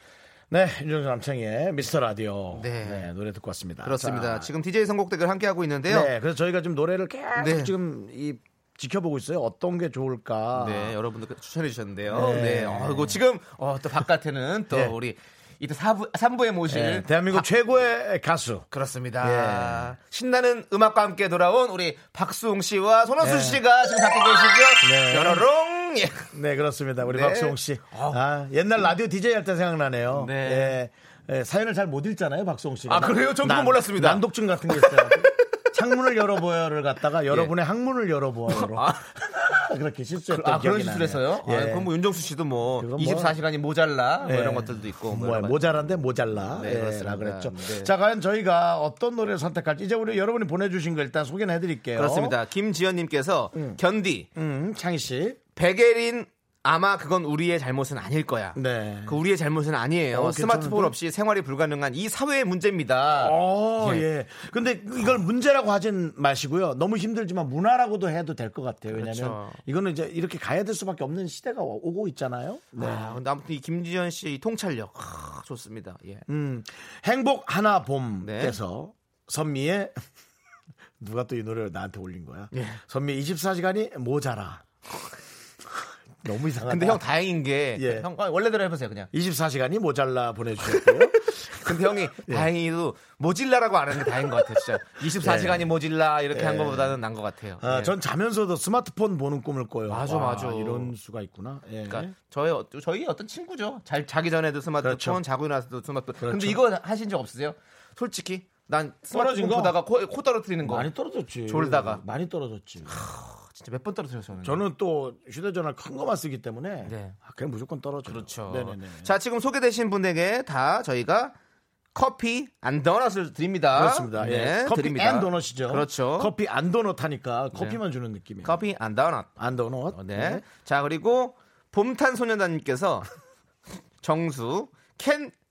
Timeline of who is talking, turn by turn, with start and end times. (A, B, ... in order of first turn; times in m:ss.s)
0:00.5-0:04.5 A
0:02.5-0:03.1 B
0:03.8-0:06.1 B
0:05.9-0:11.0 A
0:07.4-0:07.7 B
0:10.5-0:17.5 B
0:12.1-0:13.2 A
0:16.7-0:18.7 A
0:18.7-0:26.3 B
0:19.2-0:19.9 A
0:23.2-0:23.6 A
0:24.8-0:25.4 A
0:26.3-0:41.9 A
0:27.0-0:28.2 B
0:30.1-0:30.8 B
0:32.9-0:35.2 B
0:37.3-0:37.5 B
0:38.5-0:39.0 B
0:40.3-0:45.6 B
0:42.8-0:43.3 A
0:44.2-0:52.4 A
0:46.6-0:47.9 B
0:52.0-0:54.3 B
0:53.5-0:53.8 A
0:54.3-0:55.4 A
0:55.6-1:04.0 B
0:58.5-0:59.2 A
1:00.1-1:00.9 A
1:03.2-1:13.2 A
1:08.9-1:09.6 B
1:12.8-1:16.2 B
1:16.3-1:20.0 A
1:18.2-1:18.6 B
1:21.0-1:24.6 A
1:22.5-1:22.8 B
1:26.2-1:27.0 A
1:26.7-1:29.1 B
1:27.7-1:28.1 A
1:29.1-1:32.5 A
1:30.7-1:37.9 B
1:35.1-1:35.7 A
1:36.3-1:37.0 A
1:37.6-1:42.1 A
1:39.9-1:40.9 B
1:41.9-1:50.9 B
1:44.8-1:45.2 A
1:46.2-1:46.6 A
1:49.1-1:49.8 A
1:50.6-1:53.0 A
1:51.5-1:52.0 B
1:52.9-1:54.6 B
1:54.4-1:59.1 A
1:56.8-1:57.2 B
1:58.0-2:01.3 B
2:01.9-2:06.3 B
2:03.7-2:08.6 A
2:07.5-2:07.8 B
2:08.4-2:09.3 B
2:09.4-2:10.4 A
2:09.9-2:13.1 B
2:14.0-2:15.3 B